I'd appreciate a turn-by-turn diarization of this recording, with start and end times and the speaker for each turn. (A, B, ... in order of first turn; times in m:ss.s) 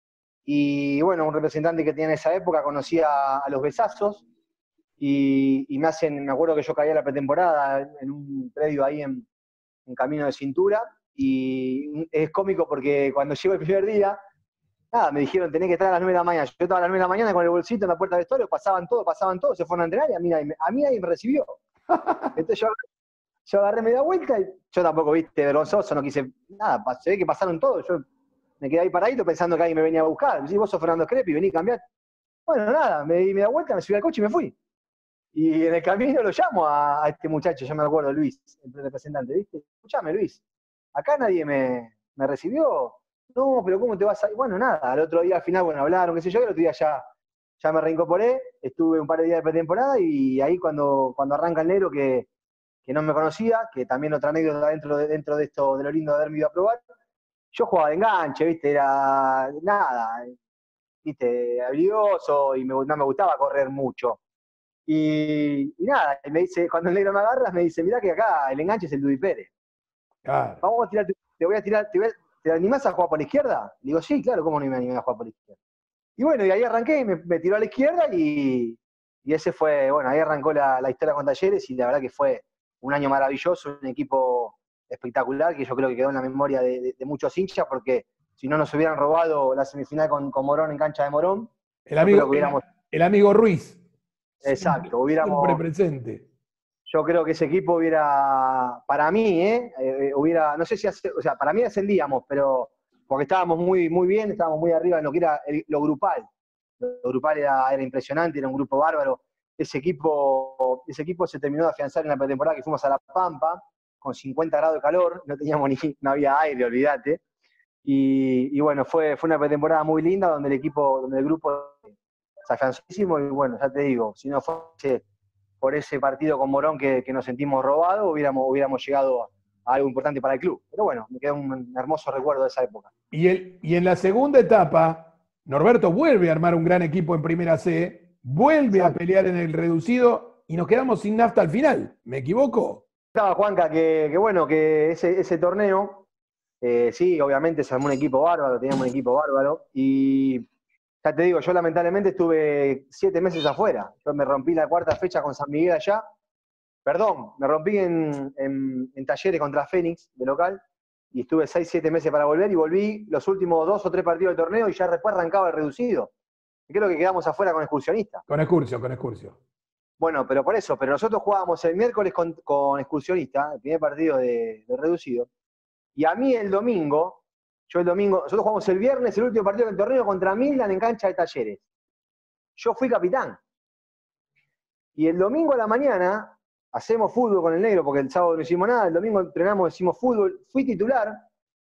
0:00.5-0:04.2 A
0:05.0-0:09.3 A
0:09.9-0:14.2 A
0:14.9-0:21.6 A
0:22.0-0:22.3 B
0:22.4-0:22.8 A
0:23.5-0:28.0 A
0:28.6-0:31.8 A
0:32.5-0:34.6 A
0:35.3-0:40.4 A
0:41.0-0:47.1 A
0:47.6-0:52.3 A
0:52.9-0:56.8 A
0:57.5-1:00.4 A
1:01.0-1:04.2 A
1:04.9-1:09.5 A
1:10.2-1:10.6 B
1:10.6-1:15.6 A
1:16.2-1:32.6 A
1:31.9-1:33.8 B
1:34.4-1:36.2 B
1:34.4-1:35.6 A
1:36.9-1:46.3 A
1:46.8-1:57.2 A
1:57.8-2:01.9 A
2:02.4-2:05.0 A
2:05.6-2:12.9 A
2:13.1-2:22.8 B
2:18.7-2:19.0 A
2:23.1-2:26.1 A
2:26.6-2:30.4 A
2:31.0-2:36.1 A
2:36.9-2:46.1 A
2:46.7-2:48.2 A
2:48.3-2:49.4 B
2:50.0-2:55.3 A
2:56.0-3:01.6 A
3:02.6-3:03.4 A
3:05.0-3:11.3 A